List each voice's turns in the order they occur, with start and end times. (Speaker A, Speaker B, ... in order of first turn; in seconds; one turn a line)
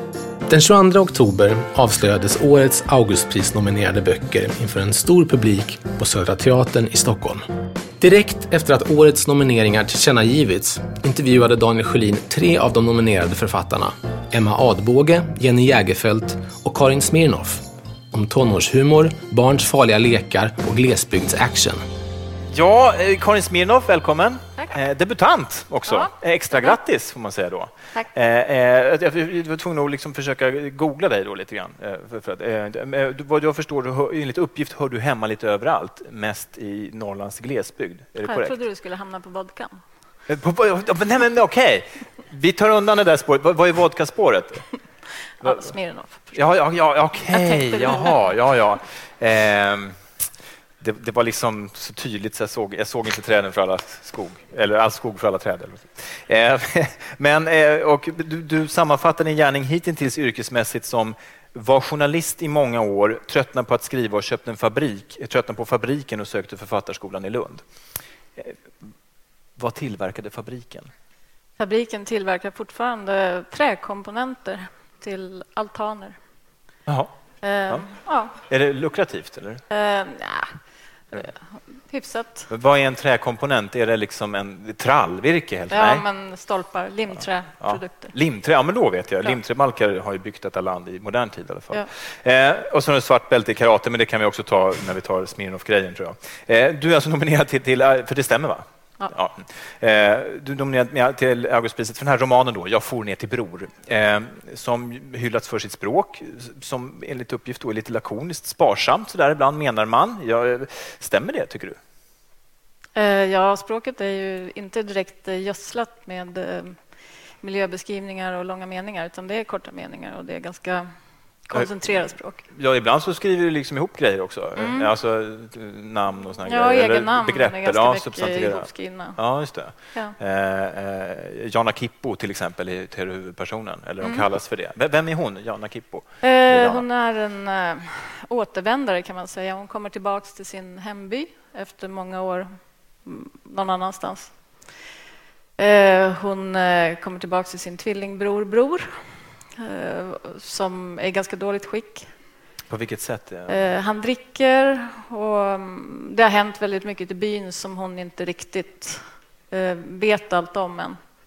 Speaker A: 0.5-7.5
Speaker A: 8.0-21.8
Speaker B: 22.5-38.6
Speaker C: 25.9-26.8
Speaker C: 38.2-39.8
Speaker B: 40.3-44.6
Speaker C: 45.4-46.4
Speaker B: 45.4-45.7
Speaker B: 46.3-50.0
Speaker C: 47.3-48.2
Speaker B: 50.8-67.6
Speaker B: 69.6-70.9
Speaker C: 71.6-76.2
Speaker B: 76.9-77.1
Speaker C: 77.4-78.3
Speaker B: 78.4-79.6
Speaker C: 79.7-80.6
Speaker C: 81.1-82.5
Speaker B: 82.5-86.0
Speaker C: 85.7-88.1
Speaker B: 87.1-111.8
Speaker C: 112.9-116.8
Speaker C: 117.4-120.9
Speaker C: 121.5-122.4
Speaker B: 121.5-136.8
Speaker C: 124.6-124.9
Speaker C: 126.5-129.2
Speaker C: 136.2-142.5
Speaker C: 143.0-144.3
Speaker C: 145.6-149.0
Speaker C: 149.6-152.1
Speaker B: 152.7-153.7
Speaker C: 153.5-161.0